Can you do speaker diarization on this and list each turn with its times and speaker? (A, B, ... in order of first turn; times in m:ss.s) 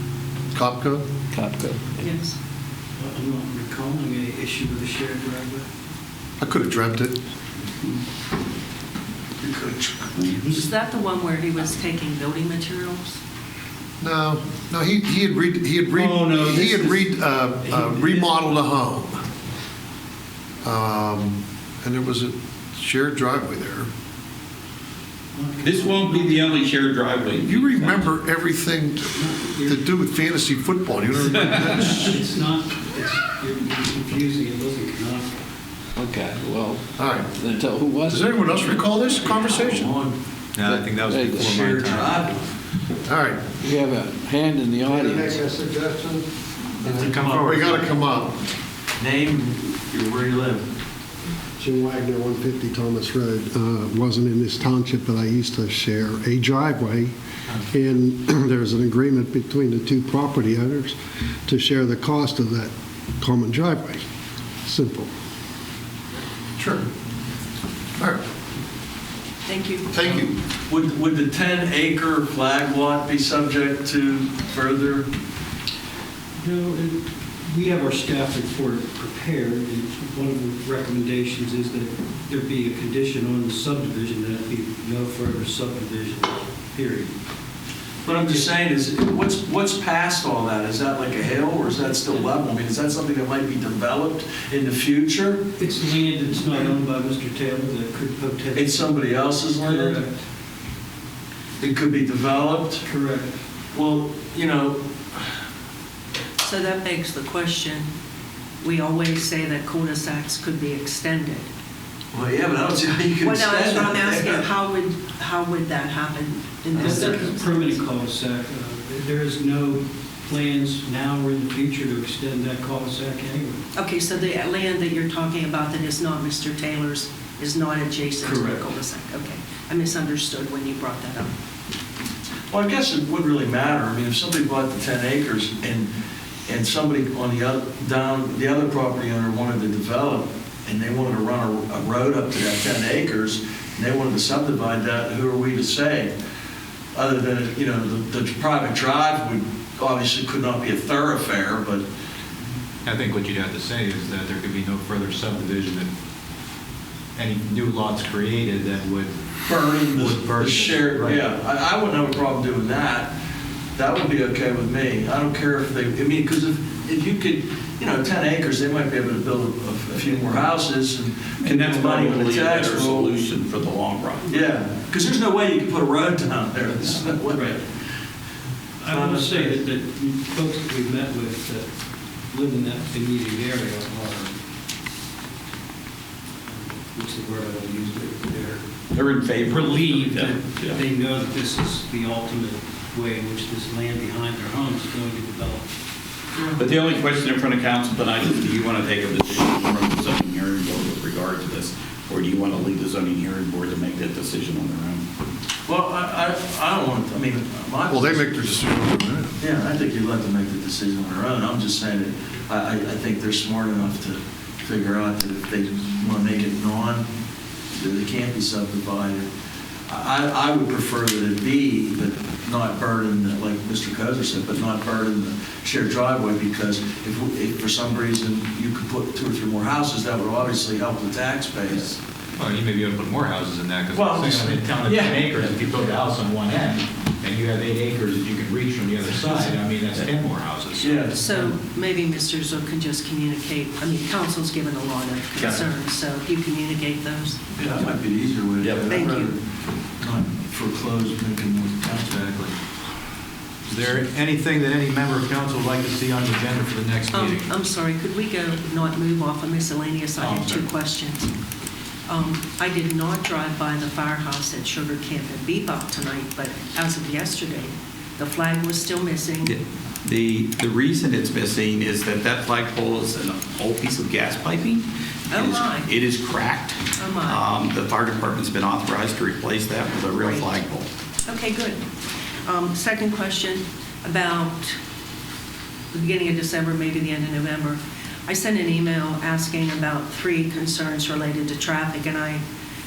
0:00.5-0:01.0 A
0:01.3-0:01.9 B
0:02.0-0:02.4 C
0:03.0-0:05.6 D
0:06.4-0:07.2 A
0:09.4-0:10.5 E
0:10.3-0:10.6 D
0:10.5-0:13.2 C
0:14.0-0:19.2 A
0:16.0-0:17.0 D
0:17.7-0:18.3 D
0:20.6-0:23.9 A
0:25.3-0:27.1 D
0:25.6-0:28.1 F
0:27.4-0:29.1 A
0:29.1-0:29.9 D
0:29.6-0:32.2 A
0:31.3-0:35.4 D
0:36.0-0:36.8 B
0:37.0-0:37.3 A
0:37.4-0:38.3 B
0:38.1-0:39.9 A
0:39.3-0:40.2 E
0:40.6-0:42.3 G
0:40.6-0:41.4 B
0:41.4-0:42.5 E
0:43.0-0:43.4 A
0:43.6-0:45.4 B
0:44.8-0:46.3 H
0:46.8-0:47.9 E
0:46.8-0:47.2 H
0:47.2-0:48.4 A
0:49.0-0:50.7 E
0:51.6-0:57.1 H
0:57.7-1:04.0 H
1:04.6-1:05.1 H
1:06.6-1:06.9 A
1:09.5-1:09.9 C
1:09.9-1:10.4 A
1:10.7-1:15.1 E
1:16.4-1:27.1 D
1:28.0-1:35.5 E
1:28.1-1:28.6 D
1:35.6-1:40.2 D
1:38.5-1:40.0 E
1:41.6-1:42.8 E
1:42.8-1:43.4 D
1:43.7-1:45.3 E
1:46.4-1:47.9 C
1:48.6-1:51.5 C
1:52.1-1:54.4 E
1:53.2-1:57.8 C
1:56.8-1:57.1 E
1:56.8-2:03.6 D
2:03.7-2:11.3 C
2:08.2-2:08.6 E
2:12.5-2:15.9 E
2:16.5-2:26.1 E
2:26.9-2:31.8 E
2:32.8-2:35.9 G
2:37.2-2:39.1 G
2:39.5-2:43.2 E
2:39.9-2:41.2 G
2:43.8-2:53.2 E
2:51.4-2:54.4 F
2:54.2-2:57.6 E
2:57.2-2:57.6 D
2:58.8-3:01.7 D
2:58.8-2:59.6 E
3:02.3-3:04.4 D
3:06.5-3:08.6 D
3:08.9-3:10.8 F
3:09.4-3:15.6 D
3:16.4-3:16.6 E
3:16.6-3:25.0 F
3:25.7-3:28.6 E
3:27.9-3:29.4 A
3:29.4-3:37.1 E
3:37.7-3:39.3 E
3:39.9-3:52.0 E
3:52.4-4:01.1 G
3:53.9-3:55.3 E
4:00.8-4:01.3 E
4:01.1-4:07.4 C
4:07.6-4:09.4 E
4:08.9-4:09.3 C
4:10.0-4:12.5 E
4:13.7-4:17.4 G
4:17.1-4:21.3 C
4:20.2-4:20.6 G
4:22.1-4:29.6 C
4:29.4-4:40.9 F
4:35.3-4:35.9 C
4:37.0-4:37.4 C
4:40.2-4:40.5 C
4:41.3-4:41.8 C
4:42.4-4:44.8 C
4:45.9-4:52.4 C